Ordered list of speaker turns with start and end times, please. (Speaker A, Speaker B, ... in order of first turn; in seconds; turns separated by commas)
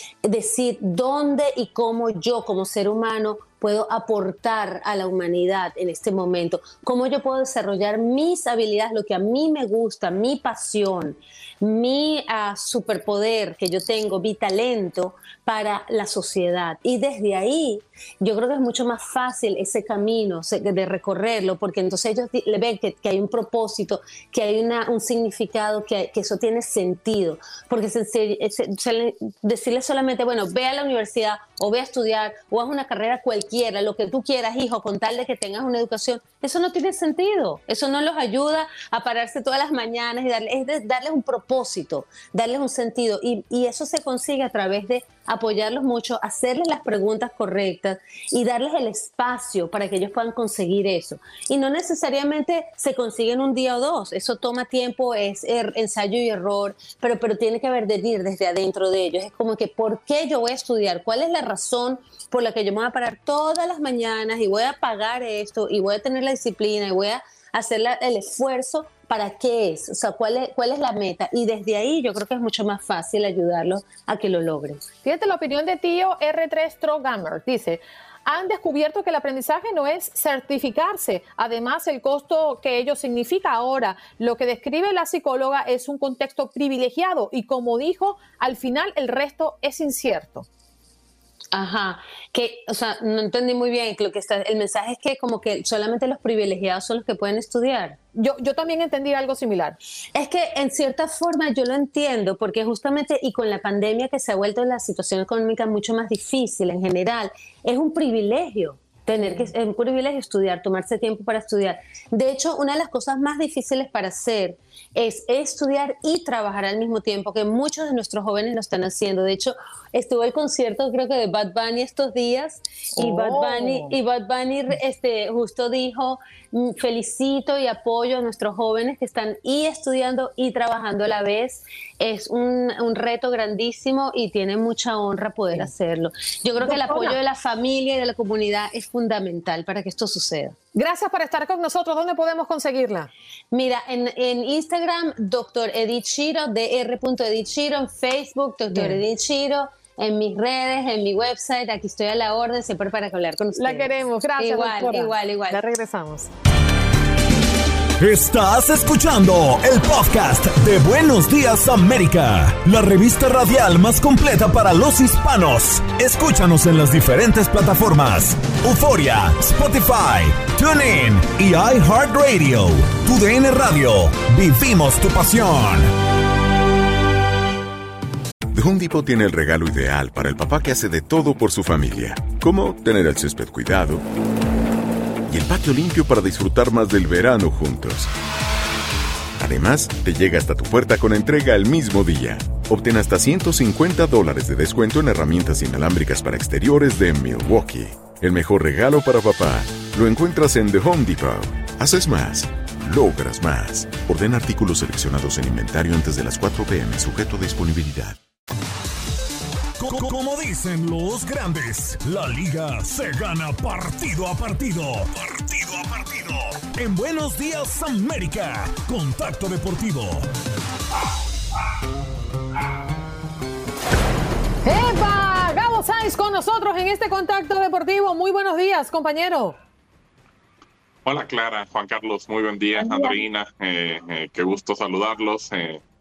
Speaker A: 0.2-74.9, Speaker B: 75.0-90.5, Speaker A: 91.5-98.0, Speaker B: 98.1-99.8, Speaker A: 100.1-140.6, Speaker B: 109.2-109.5, Speaker B: 123.0-123.9, Speaker B: 136.6-137.2, Speaker B: 140.7-143.1, Speaker A: 143.5-155.6, Speaker B: 148.7-149.0, Speaker B: 153.5-156.3, Speaker C: 158.0-175.9, Speaker D: 178.5-184.0, Speaker D: 185.3-188.1, Speaker D: 189.4-208.2, Speaker C: 209.8-220.3, Speaker B: 224.6-229.6, Speaker E: 231.0-235.8, Speaker B: 232.8-233.2